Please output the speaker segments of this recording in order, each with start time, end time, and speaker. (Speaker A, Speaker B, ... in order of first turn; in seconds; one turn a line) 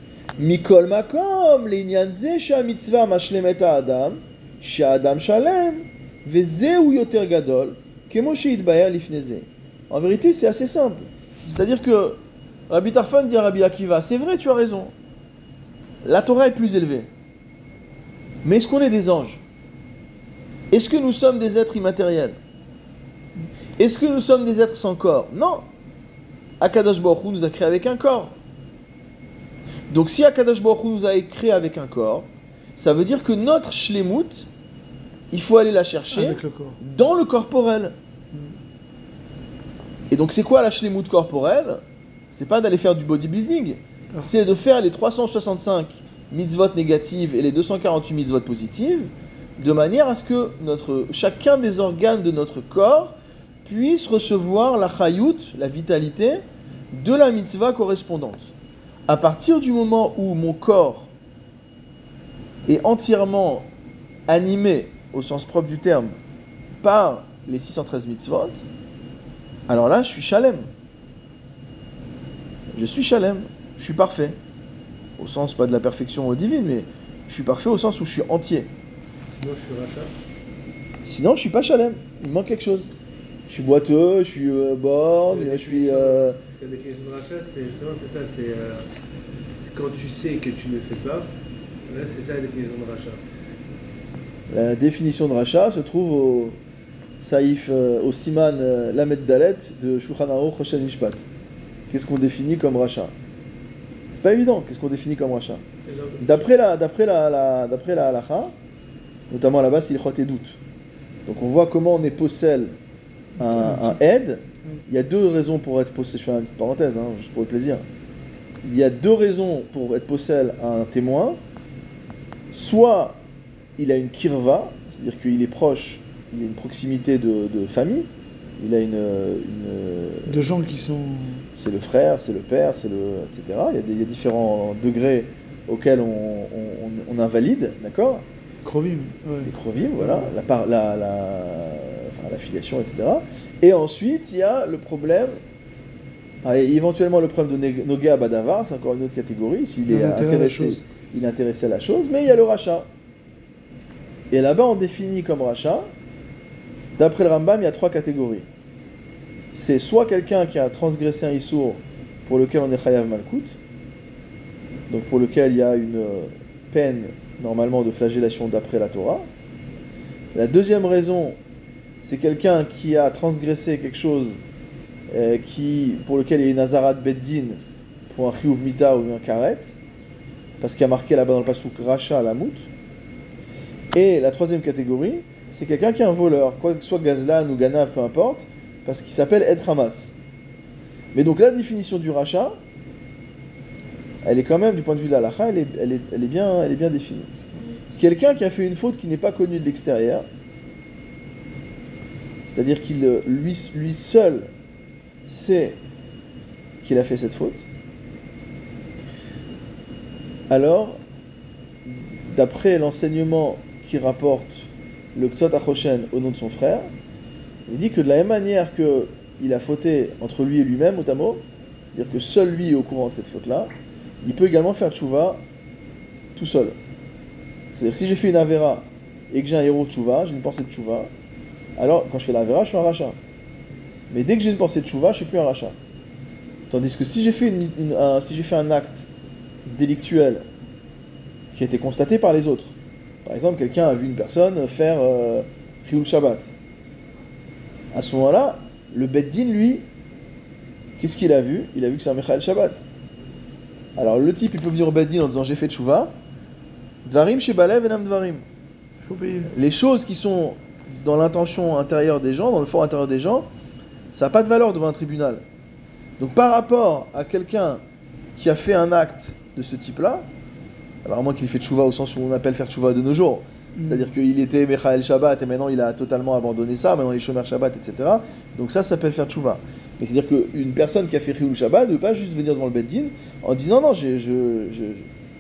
Speaker A: 0.4-12.2
Speaker A: 12.7-14.9
Speaker A: 16.0-17.1
Speaker A: 18.4-19.4
Speaker A: 20.7-22.4
Speaker A: 23.8-25.7
Speaker A: 26.6-28.4
Speaker A: 29.9-34.5
Speaker A: 35.3-38.0
Speaker B: 36.1-36.8
Speaker B: 38.3-38.6
Speaker A: 40.1-58.5
Speaker A: 59.1-61.1
Speaker A: 62.7-63.7
Speaker A: 64.3-66.2
Speaker A: 66.8-68.7
Speaker A: 69.7-70.7
Speaker A: 72.7-74.4
Speaker A: 75.2-78.7
Speaker C: 79.2-80.1
Speaker A: 81.0-82.9
Speaker A: 83.5-86.4
Speaker C: 85.3-88.9
Speaker C: 89.6-91.3
Speaker C: 91.9-93.2
Speaker A: 94.5-96.6
Speaker A: 97.2-101.2
Speaker A: 101.9-103.1
Speaker A: 104.2-105.6
Speaker C: 105.8-106.5
Speaker A: 106.2-108.5
Speaker A: 109.3-110.6
Speaker A: 111.3-112.8
Speaker B: 113.4-114.0
Speaker A: 113.4-117.8
Speaker A: 118.6-121.4
Speaker A: 122.5-123.2
Speaker A: 123.8-128.1
Speaker A: 128.6-130.4
Speaker B: 130.3-131.5
Speaker A: 131.6-138.2
Speaker B: 138.6-140.3
Speaker A: 139.4-145.4
Speaker A: 146.4-152.9
Speaker B: 149.9-150.8
Speaker A: 154.3-155.9
Speaker A: 157.0-158.5
Speaker A: 159.5-163.6
Speaker A: 164.9-169.3
Speaker A: 170.3-171.4
Speaker A: 172.0-174.4
Speaker A: 175.1-179.8
Speaker A: 180.6-182.7
Speaker A: 183.9-190.2
Speaker A: 191.1-192.6
Speaker A: 194.2-197.4
Speaker A: 198.0-200.2
Speaker A: 202.5-204.5
Speaker A: 205.3-205.8
Speaker A: 206.8-207.7
Speaker A: 210.5-211.0
Speaker A: 211.9-216.9
Speaker A: 217.7-221.4
Speaker A: 221.9-223.7
Speaker A: 224.2-225.4
Speaker A: 226.3-226.8
Speaker A: 227.7-231.1
Speaker A: 231.8-233.2
Speaker A: 234.1-235.8
Speaker A: 236.7-239.1
Speaker A: 239.7-240.4
Speaker A: 241.5-246.6
Speaker A: 247.9-249.8
Speaker A: 251.0-252.8
Speaker A: 254.0-256.2
Speaker A: 257.1-258.4
Speaker B: 259.0-259.5
Speaker A: 259.5-263.5
Speaker A: 264.1-265.4
Speaker A: 266.2-267.8
Speaker A: 268.4-270.3
Speaker A: 271.1-285.1
Speaker B: 273.8-274.1